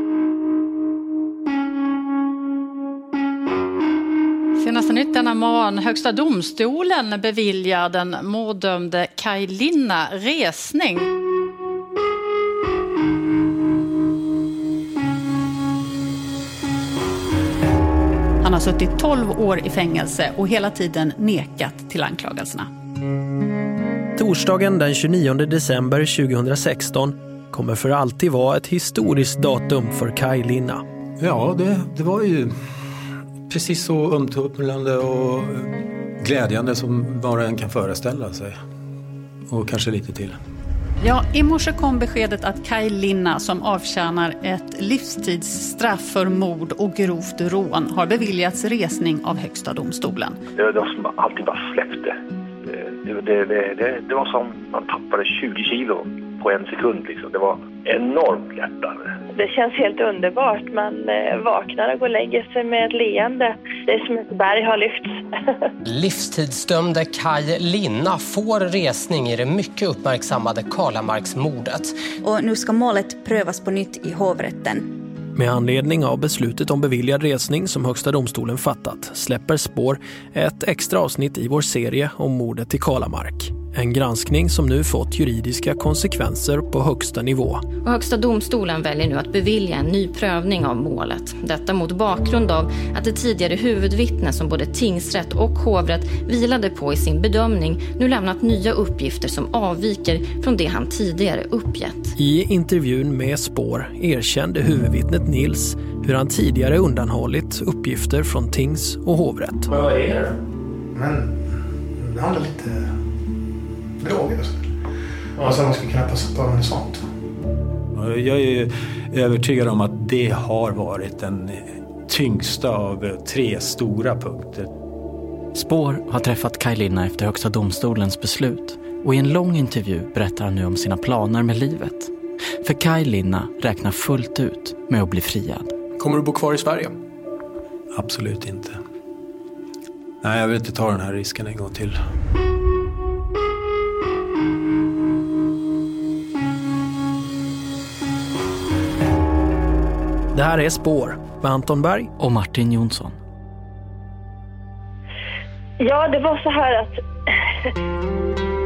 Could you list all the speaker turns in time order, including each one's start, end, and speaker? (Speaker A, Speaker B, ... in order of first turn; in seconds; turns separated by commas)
Speaker A: 4.5-11.1, Speaker A: 18.4-22.7, Speaker B: 24.2-30.8, Speaker C: 31.2-38.6, Speaker C: 39.5-40.4, Speaker A: 41.0-50.4, Speaker D: 50.6-59.1, Speaker E: 59.3-65.2, Speaker F: 65.8-71.9, Speaker G: 72.2-74.9, Speaker B: 75.3-87.6, Speaker H: 87.9-95.0, Speaker H: 96.0-102.0, Speaker B: 102.2-110.4, Speaker I: 110.9-113.0, Speaker I: 114.0-114.7, Speaker I: 115.4-117.0, Speaker C: 117.9-124.7, Speaker J: 125.5-135.7, Speaker B: 136.0-136.9, Speaker C: 137.9-138.8, Speaker C: 140.2-142.0, Speaker B: 150.3-152.1, Speaker J: 152.2-153.2, Speaker E: 155.8-157.0